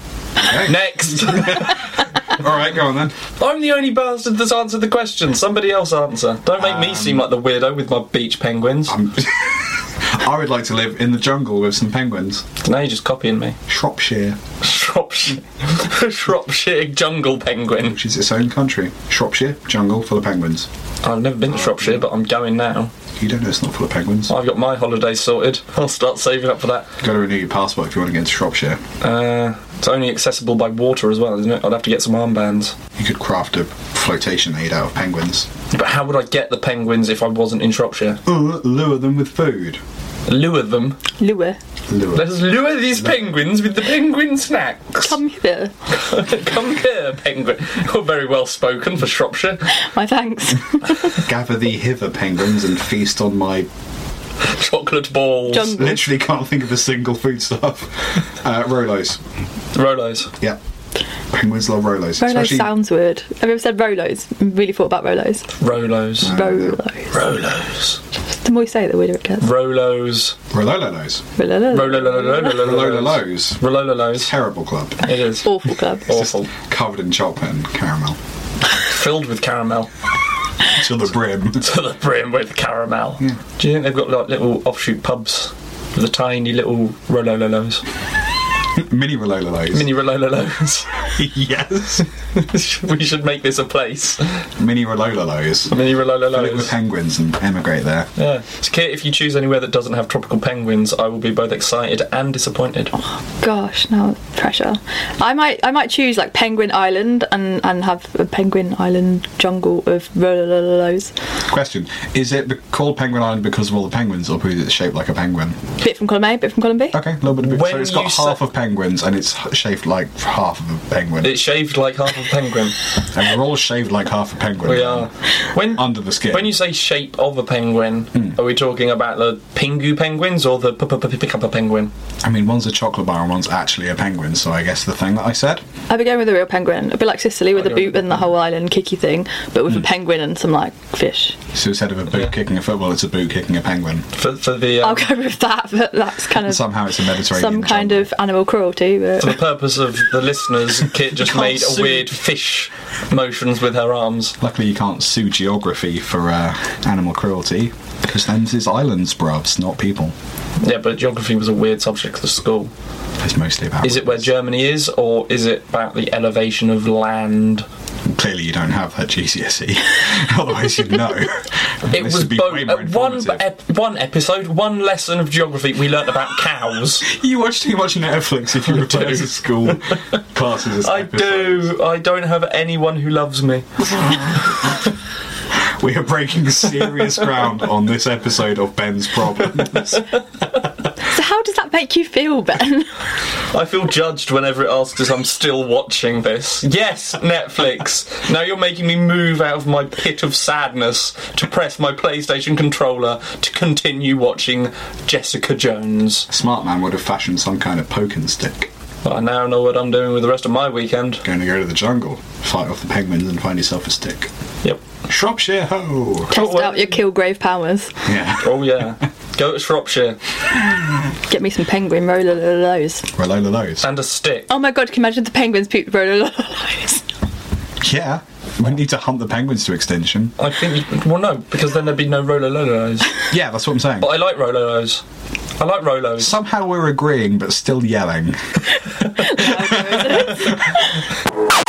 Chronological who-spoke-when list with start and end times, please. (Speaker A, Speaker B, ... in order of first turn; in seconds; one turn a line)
Speaker A: 0.4-3.1
Speaker B: 0.5-2.0
Speaker B: 3.4-9.0
Speaker A: 6.6-7.3
Speaker A: 8.9-12.4
Speaker B: 12.6-13.6
Speaker A: 13.7-14.4
Speaker B: 14.6-17.9
Speaker A: 17.8-20.7
Speaker B: 21.0-22.9
Speaker A: 21.5-22.0
Speaker A: 23.1-24.3
Speaker B: 24.3-26.9
Speaker A: 27.0-28.8
Speaker B: 29.0-32.7
Speaker A: 33.0-35.5
Speaker B: 35.7-38.2
Speaker A: 38.2-39.8
Speaker B: 40.3-41.0
Speaker C: 41.2-41.6
Speaker A: 41.9-42.3
Speaker B: 42.1-45.1
Speaker C: 45.0-45.7
Speaker B: 45.9-49.7
Speaker C: 49.7-51.1
Speaker A: 51.1-53.7
Speaker B: 54.4-55.9
Speaker C: 55.5-56.0
Speaker A: 55.7-59.2
Speaker B: 59.7-60.3
Speaker A: 61.3-62.7
Speaker C: 62.2-65.5
Speaker B: 65.6-66.3
Speaker A: 66.2-66.7
Speaker C: 66.2-67.1
Speaker B: 67.1-68.0
Speaker C: 68.4-69.5
Speaker B: 69.4-70.3
Speaker A: 70.5-71.2
Speaker C: 71.4-72.6
Speaker B: 71.7-74.3
Speaker A: 72.5-73.6
Speaker A: 74.1-75.0
Speaker B: 75.0-76.5
Speaker C: 75.4-76.1
Speaker A: 76.1-78.2
Speaker B: 78.8-79.9
Speaker A: 80.7-81.6
Speaker B: 81.6-87.8
Speaker A: 88.7-89.9
Speaker B: 89.7-91.1
Speaker A: 91.0-92.1
Speaker B: 92.3-94.4
Speaker A: 94.6-98.1
Speaker B: 95.7-96.7
Speaker B: 98.2-102.9
Speaker C: 103.4-111.1
Speaker A: 111.5-115.6
Speaker C: 115.8-117.0
Speaker A: 116.9-121.4
Speaker B: 117.4-118.4
Speaker B: 121.2-122.8
Speaker A: 123.1-125.1
Speaker B: 124.6-131.9
Speaker A: 125.6-126.5
Speaker A: 132.2-135.6
Speaker C: 135.9-141.4
Speaker B: 137.6-138.2
Speaker A: 141.5-144.1
Speaker B: 144.2-145.1
Speaker C: 144.8-149.4
Speaker A: 146.4-148.1
Speaker B: 149.2-154.3
Speaker A: 151.3-152.0
Speaker A: 154.4-160.1
Speaker B: 160.6-162.7
Speaker A: 163.2-164.2
Speaker B: 163.8-167.7
Speaker A: 168.1-173.4
Speaker B: 171.9-177.1
Speaker A: 177.0-181.7
Speaker B: 178.8-179.2
Speaker B: 180.8-183.6
Speaker A: 183.8-184.9
Speaker A: 185.5-190.1
Speaker C: 191.0-192.9
Speaker B: 193.5-206.3
Speaker A: 206.3-208.7
Speaker B: 209.0-211.2
Speaker A: 211.2-214.3
Speaker A: 215.1-216.3
Speaker B: 216.3-217.0
Speaker C: 216.3-218.0
Speaker A: 218.0-218.8
Speaker B: 218.4-220.2
Speaker C: 221.3-223.1
Speaker A: 223.1-223.8
Speaker B: 223.8-224.5
Speaker C: 224.5-227.0
Speaker A: 227.8-230.3
Speaker B: 230.4-233.2
Speaker A: 233.3-234.1
Speaker B: 234.0-235.0
Speaker B: 235.6-236.3
Speaker A: 236.2-238.6
Speaker C: 239.2-240.8
Speaker A: 239.5-240.4